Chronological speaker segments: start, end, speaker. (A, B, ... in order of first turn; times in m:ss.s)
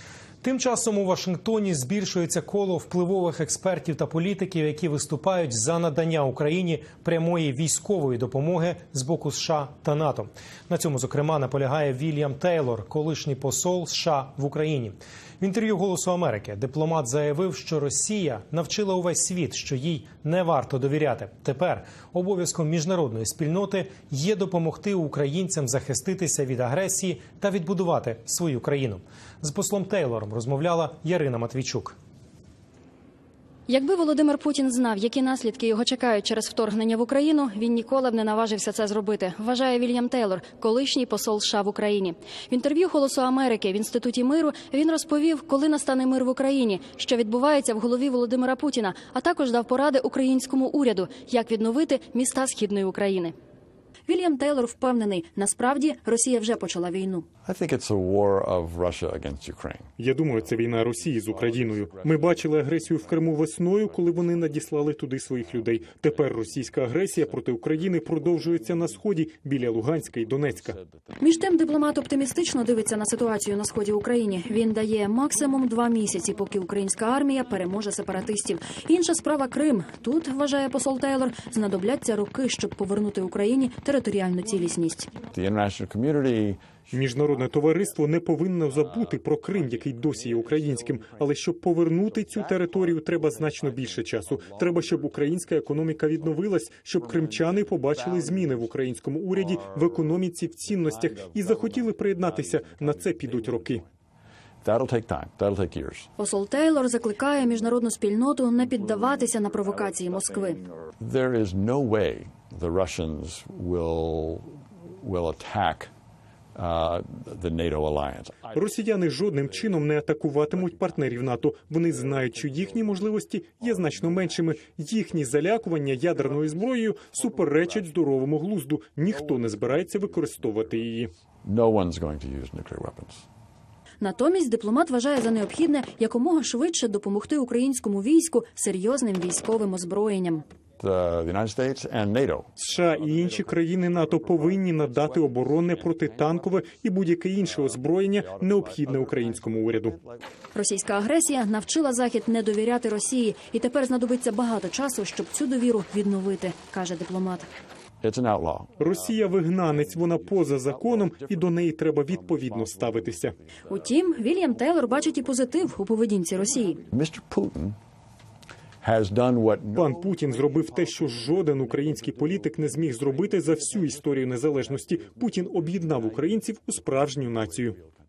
0:00.4-0:32.0 A
0:33.7-0:53.3 B
0:54.1-0:57.3 B
0:57.4-0:59.9 C
1:00.0-1:10.8 D
1:11.2-1:25.1 B
1:25.3-1:26.6 C
1:26.9-1:43.8 D
1:44.6-1:46.1 C
1:46.2-1:50.6 B
1:51.0-1:55.9 C
1:56.6-1:58.5 C
1:58.5-2:11.1 D
2:11.4-2:13.2 C
2:14.0-2:20.4 B
2:20.8-2:22.5 C
2:22.6-2:30.0 D
2:29.6-2:30.2 C
2:30.6-2:37.5 B
2:38.0-2:38.8 C
2:38.8-2:43.4 D
2:42.6-2:43.0 C
2:43.7-2:46.8 B
2:46.9-2:47.8 C
2:48.8-2:49.9 C
2:49.8-2:57.8 D